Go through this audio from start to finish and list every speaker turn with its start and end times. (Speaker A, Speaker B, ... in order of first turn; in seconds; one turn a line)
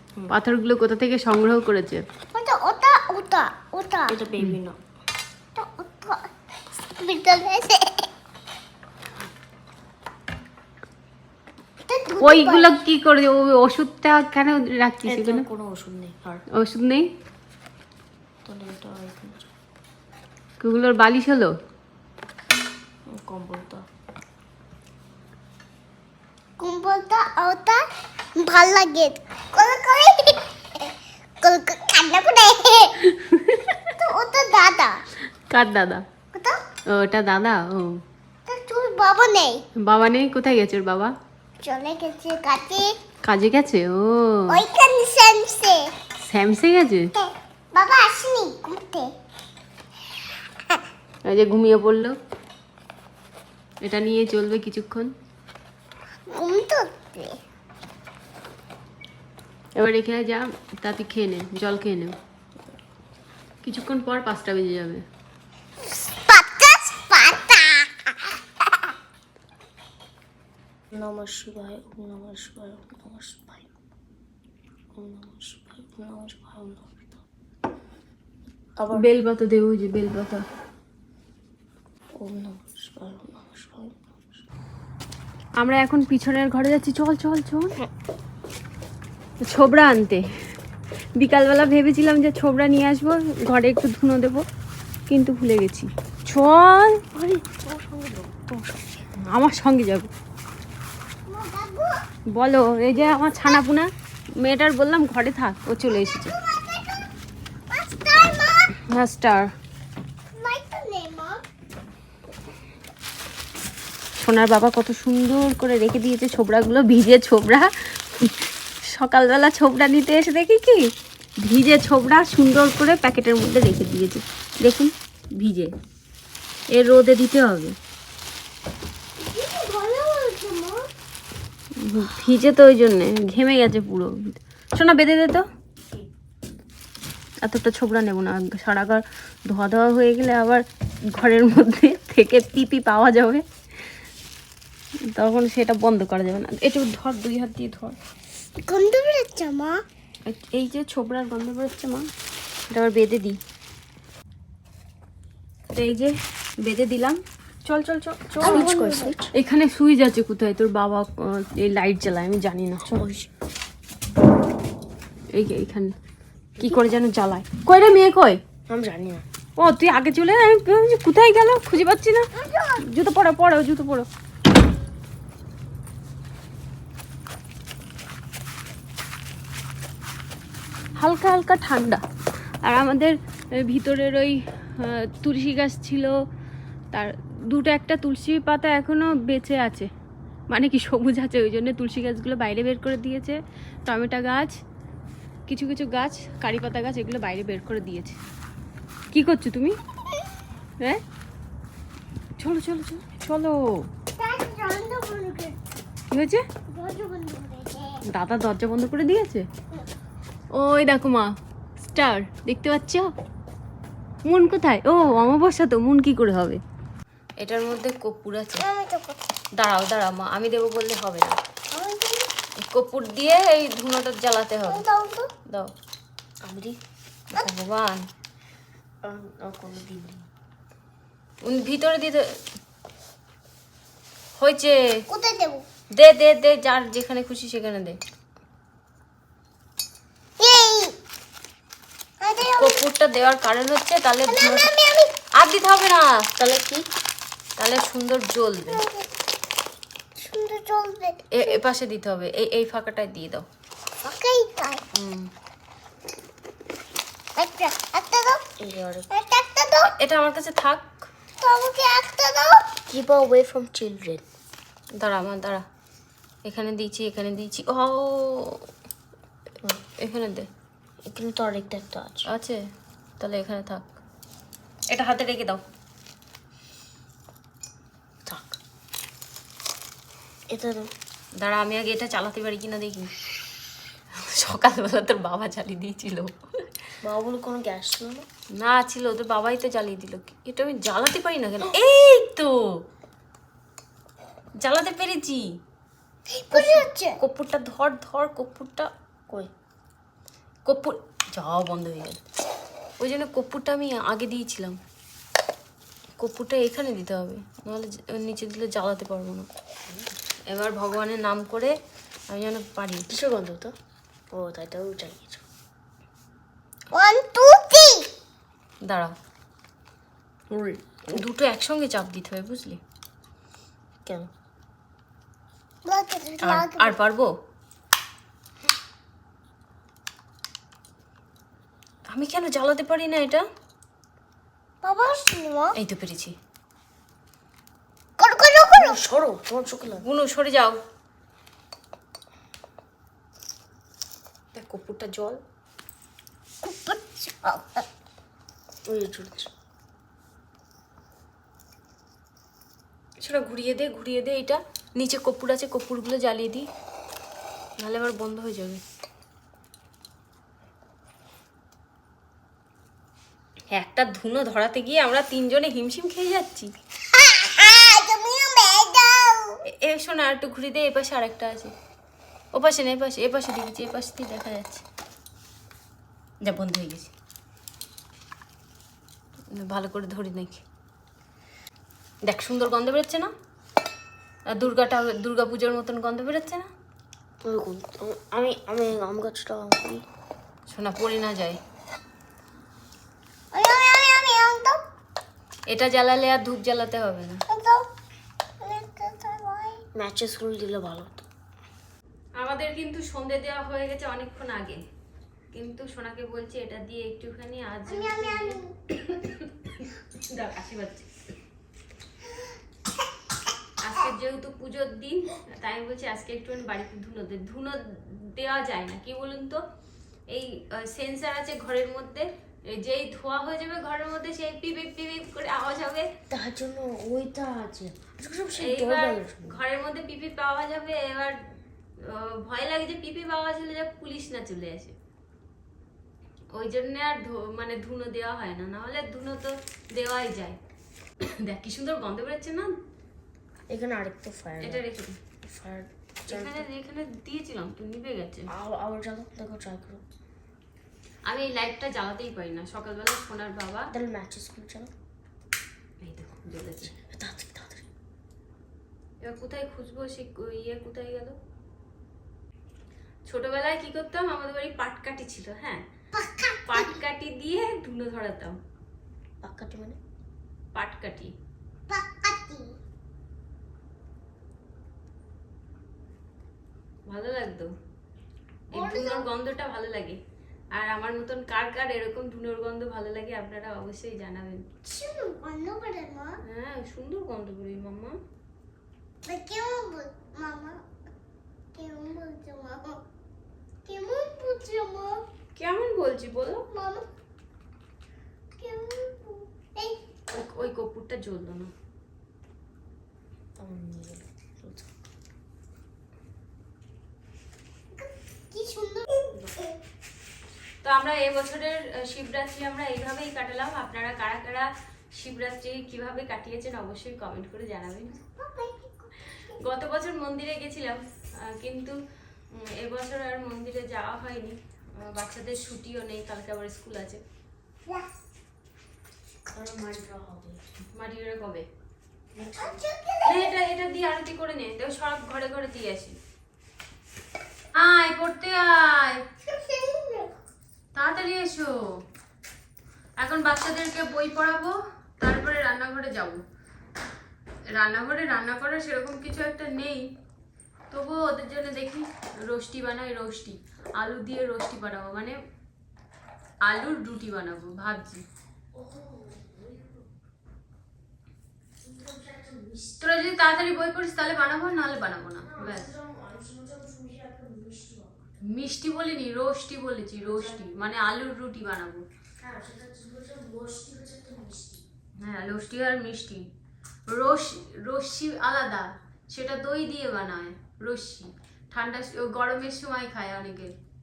Speaker A: 0.3-2.0
Speaker B: 2.3-4.2
Speaker C: 4.1-4.8
Speaker B: 5.5-8.1
Speaker B: 11.8-12.8
Speaker A: 12.2-15.5
Speaker C: 15.1-16.4
Speaker A: 16.5-17.1
Speaker C: 18.4-19.5
Speaker A: 20.6-21.5
Speaker C: 23.1-23.8
Speaker B: 26.6-33.0
Speaker A: 33.1-33.9
Speaker B: 34.0-35.0
Speaker A: 35.5-36.0
Speaker B: 36.3-36.6
Speaker A: 36.9-38.0
Speaker B: 38.5-39.6
Speaker A: 39.7-41.1
Speaker B: 41.6-42.9
Speaker A: 43.2-44.6
Speaker B: 44.5-45.9
Speaker A: 46.2-47.1
Speaker B: 47.2-49.1
Speaker A: 51.2-52.2
Speaker A: 53.8-55.1
Speaker B: 56.3-57.4
Speaker A: 59.8-62.1
Speaker A: 63.6-65.0
Speaker B: 65.9-68.1
Speaker C: 70.9-73.7
Speaker C: 75.0-77.1
Speaker C: 78.8-79.1
Speaker A: 78.9-80.4
Speaker C: 82.2-84.4
Speaker A: 85.6-87.8
Speaker A: 89.5-90.4
Speaker A: 91.2-94.4
Speaker A: 95.1-97.2
Speaker C: 97.2-98.8
Speaker A: 99.3-100.1
Speaker B: 101.2-102.0
Speaker A: 102.3-103.9
Speaker A: 104.4-106.3
Speaker B: 105.9-107.1
Speaker B: 107.7-108.8
Speaker A: 108.8-109.5
Speaker B: 110.3-111.4
Speaker A: 114.2-120.9
Speaker A: 121.4-125.7
Speaker A: 126.7-127.8
Speaker B: 129.2-130.9
Speaker A: 131.8-135.5
Speaker A: 137.4-143.4
Speaker A: 145.1-148.0
Speaker B: 148.6-149.8
Speaker A: 150.2-152.1
Speaker A: 152.7-153.4
Speaker A: 155.7-163.0
Speaker C: 158.4-159.3
Speaker C: 162.9-163.3
Speaker A: 165.3-165.9
Speaker A: 166.6-168.4
Speaker C: 168.7-169.2
Speaker A: 169.6-174.1
Speaker B: 172.4-172.8
Speaker A: 181.0-182.0
Speaker A: 182.6-186.2
Speaker A: 186.9-189.9
Speaker A: 190.5-194.5
Speaker A: 195.5-198.2
Speaker A: 199.1-199.8
Speaker A: 202.4-203.9
Speaker B: 204.2-205.6
Speaker A: 206.1-206.4
Speaker B: 206.7-208.0
Speaker A: 208.1-209.4
Speaker A: 210.5-213.1
Speaker A: 214.2-216.6
Speaker A: 217.4-218.7
Speaker B: 218.6-219.2
Speaker A: 219.6-221.3
Speaker B: 221.7-222.3
Speaker A: 222.6-224.8
Speaker B: 224.6-225.3
Speaker C: 226.4-226.8
Speaker A: 227.3-228.1
Speaker C: 229.0-230.2
Speaker A: 231.4-232.4
Speaker A: 234.4-235.0
Speaker B: 235.1-235.6
Speaker A: 235.9-238.0
Speaker B: 240.4-240.9
Speaker B: 242.2-242.8
Speaker A: 242.4-244.7
Speaker B: 244.2-245.2
Speaker A: 245.3-246.8
Speaker A: 247.6-248.8
Speaker B: 248.7-249.1
Speaker B: 250.2-251.6
Speaker A: 251.3-253.4
Speaker B: 254.0-254.8
Speaker A: 254.9-255.3
Speaker B: 257.4-258.4
Speaker C: 258.6-259.1
Speaker B: 259.1-259.9
Speaker A: 259.8-261.1
Speaker B: 261.4-262.7
Speaker C: 262.9-264.2
Speaker A: 265.0-265.6
Speaker A: 266.4-268.7
Speaker A: 269.8-270.5
Speaker C: 271.0-272.3
Speaker A: 272.3-272.6
Speaker A: 273.2-274.0
Speaker A: 274.9-275.6
Speaker C: 278.2-278.6
Speaker C: 280.5-280.9
Speaker A: 281.4-283.1
Speaker A: 284.1-286.4
Speaker C: 287.0-288.2
Speaker A: 288.6-292.6
Speaker A: 294.6-295.4
Speaker B: 296.3-297.2
Speaker A: 296.5-298.9
Speaker A: 300.6-302.2
Speaker A: 303.0-304.8
Speaker A: 306.2-309.5
Speaker A: 310.5-311.8
Speaker A: 312.3-313.1
Speaker C: 313.1-313.7
Speaker C: 314.3-315.4
Speaker B: 316.9-318.1
Speaker A: 318.8-319.1
Speaker A: 320.5-322.8
Speaker B: 325.8-327.0
Speaker A: 326.4-327.3
Speaker A: 332.1-333.4
Speaker B: 334.8-335.8
Speaker A: 335.7-336.4
Speaker B: 338.2-339.0
Speaker C: 338.7-340.1
Speaker A: 340.0-340.8
Speaker A: 344.5-345.4
Speaker B: 346.6-347.9
Speaker C: 348.9-349.5
Speaker A: 353.2-356.7
Speaker A: 357.8-358.8
Speaker A: 363.7-366.7
Speaker B: 367.2-369.6
Speaker A: 369.7-371.7
Speaker A: 372.5-374.8
Speaker A: 376.4-377.1
Speaker A: 379.5-380.6
Speaker A: 382.2-383.3
Speaker A: 384.5-386.7
Speaker C: 387.4-390.0
Speaker A: 390.7-391.6
Speaker B: 393.5-394.8
Speaker A: 395.7-397.4
Speaker B: 397.5-397.8
Speaker B: 398.6-399.8
Speaker C: 399.9-401.3
Speaker A: 402.4-404.8
Speaker A: 405.5-411.1
Speaker B: 407.9-408.7
Speaker A: 413.8-419.6
Speaker A: 420.3-426.1
Speaker C: 426.3-429.6
Speaker A: 428.6-431.4
Speaker A: 432.0-434.9
Speaker A: 436.5-440.6
Speaker A: 441.2-442.7
Speaker C: 443.7-444.8
Speaker A: 444.6-445.2
Speaker C: 445.4-446.6
Speaker A: 446.2-448.5
Speaker C: 448.5-450.0
Speaker A: 451.2-453.9
Speaker C: 453.9-454.9
Speaker A: 456.0-456.9
Speaker C: 456.9-457.9
Speaker A: 459.2-461.4
Speaker A: 463.2-465.8
Speaker B: 466.1-467.0
Speaker A: 466.6-468.6
Speaker C: 469.4-470.0
Speaker A: 470.7-471.3
Speaker B: 471.9-472.7
Speaker A: 477.1-477.7
Speaker A: 478.7-480.2
Speaker B: 478.7-479.3
Speaker A: 480.7-484.6
Speaker B: 484.8-486.4
Speaker A: 486.4-488.2
Speaker B: 489.2-490.8
Speaker B: 491.7-493.0
Speaker B: 493.8-495.2
Speaker A: 495.6-496.7
Speaker B: 496.7-497.1
Speaker B: 498.6-500.0
Speaker A: 500.3-501.7
Speaker C: 503.6-504.9
Speaker B: 507.9-509.3
Speaker A: 510.8-518.2
Speaker B: 518.3-519.6
Speaker A: 519.5-522.0
Speaker A: 522.5-527.2
Speaker C: 529.5-530.6
Speaker A: 530.9-531.6
Speaker C: 532.3-532.8
Speaker B: 532.6-533.6
Speaker A: 533.2-536.2
Speaker A: 537.7-539.3
Speaker B: 539.4-540.3
Speaker A: 540.9-541.8
Speaker A: 543.2-546.4
Speaker A: 547.7-550.0
Speaker A: 550.9-555.4
Speaker A: 556.6-558.2
Speaker C: 558.7-560.0
Speaker C: 561.8-563.0
Speaker A: 563.0-565.9
Speaker C: 565.4-568.1
Speaker A: 568.4-572.0
Speaker C: 570.2-570.7
Speaker C: 572.4-574.8
Speaker A: 575.2-576.5
Speaker A: 577.1-583.7